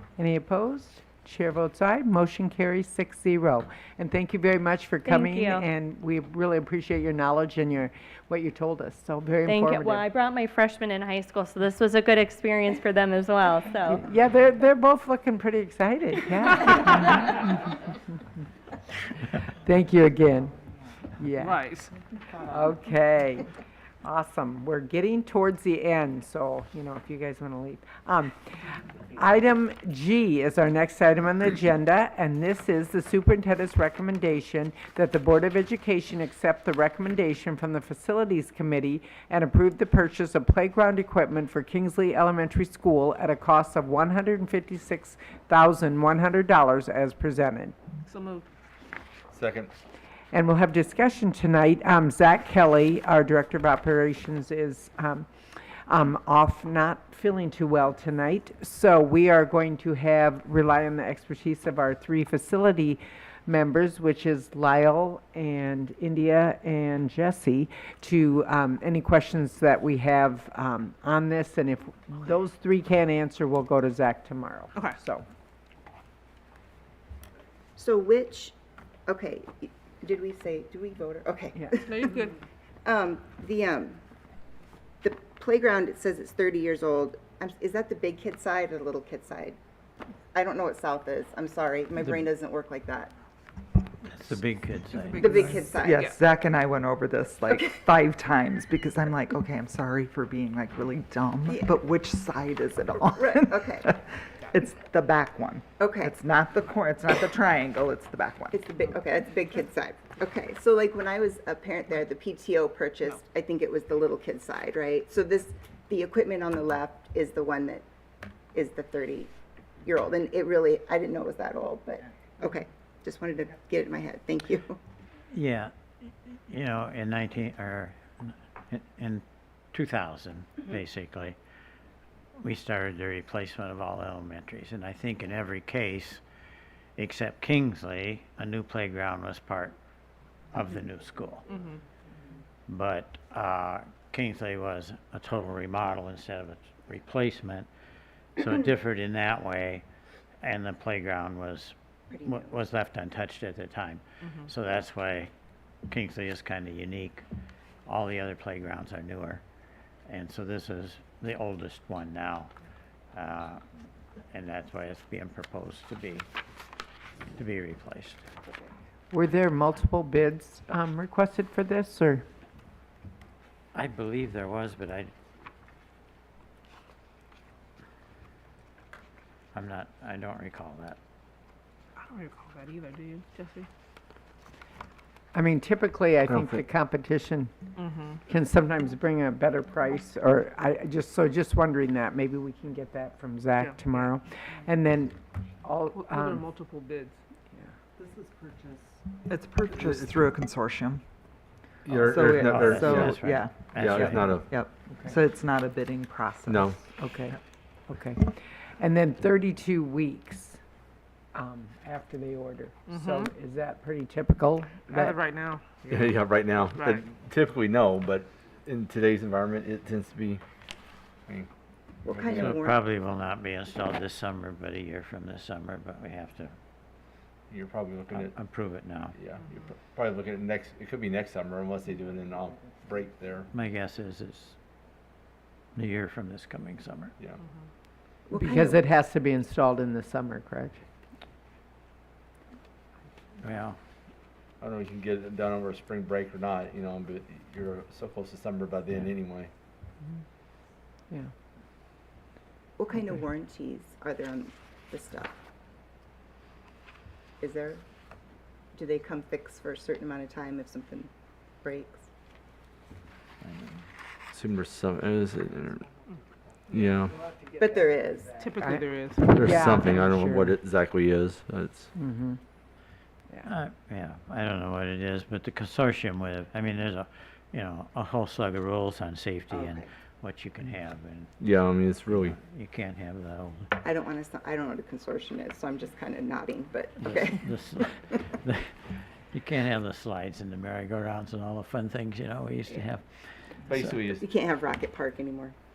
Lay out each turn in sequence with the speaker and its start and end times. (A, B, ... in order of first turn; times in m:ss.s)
0:00.2-0:10.0 A
0:05.0-0:05.7 B
0:09.5-0:14.0 B
0:13.9-0:17.9 A
0:19.5-0:20.5 A
0:21.2-0:21.6 A
0:21.4-0:21.9 C
0:22.4-0:23.5 A
0:24.0-0:47.8 A
0:48.1-0:48.5 C
0:49.3-0:49.7 D
0:50.3-0:55.3 A
0:55.9-1:15.2 A
1:17.8-1:18.5 E
1:19.1-1:22.3 E
1:21.9-1:22.4 C
1:22.8-1:24.0 E
1:25.0-1:29.6 E
1:30.3-1:33.1 E
1:34.1-1:35.5 F
1:35.2-1:36.1 E
1:35.7-1:48.6 G
1:35.9-1:36.2 C
1:41.5-1:41.7 E
1:43.2-1:43.9 E
1:45.8-1:46.1 E
1:48.5-1:57.9 E
1:58.5-1:59.3 E
1:59.8-2:04.8 E
2:05.3-2:11.4 F
2:12.4-2:16.2 F
2:17.0-2:19.8 F
2:20.5-2:21.5 F
2:22.7-2:27.7 F
2:28.4-2:29.8 F
2:30.4-2:35.3 F
2:32.1-2:32.6 E
2:35.9-2:37.2 F
2:37.9-2:39.4 F
2:40.1-2:42.5 F
2:43.1-2:43.6 F
2:44.3-2:46.3 F
2:47.4-2:48.2 F
2:49.1-2:52.2 A
2:53.7-2:55.1 F
2:59.5-3:01.0 F
3:02.0-3:03.7 C
3:05.3-3:07.5 A
3:06.3-3:06.6 D
3:07.8-3:08.2 C
3:08.2-3:16.5 A
3:16.0-3:17.2 C
3:19.1-3:21.0 G
3:21.9-3:24.5 D
3:21.9-3:26.8 G
3:22.4-3:24.4 F
3:26.5-3:26.8 D
3:27.0-3:27.4 A
3:27.9-3:30.6 A
3:31.3-3:35.2 A
3:32.9-3:33.3 C
3:34.9-3:35.6 C
3:35.8-3:36.2 G
3:35.9-3:40.4 D
3:36.7-3:37.0 C
3:42.0-3:42.8 E
3:42.1-3:42.6 D
3:42.4-3:46.5 F
3:47.5-3:48.3 D
3:48.2-3:49.2 F
3:49.2-3:53.5 D
3:53.5-3:54.6 F
3:55.8-3:57.1 F
3:58.3-3:58.8 E
3:58.4-4:00.8 A
4:03.4-4:03.8 F
4:04.6-4:09.5 D
4:12.8-4:15.4 E
4:17.4-4:17.8 E
4:18.8-4:21.1 E
4:21.6-4:22.0 E
4:23.4-4:23.7 F
4:24.3-4:25.9 D
4:26.7-4:27.3 D
4:27.5-4:28.5 E
4:28.4-4:29.3 C
4:28.6-4:30.5 A
4:29.2-4:31.9 D
4:32.0-4:32.4 A
4:33.4-4:41.4 F
4:39.5-4:39.9 E
4:41.4-4:42.4 D
4:42.2-4:43.7 F
4:43.8-4:47.8 E
4:47.0-4:53.0 F
4:53.6-4:53.9 F
4:53.7-4:54.3 D
4:54.2-4:55.5 E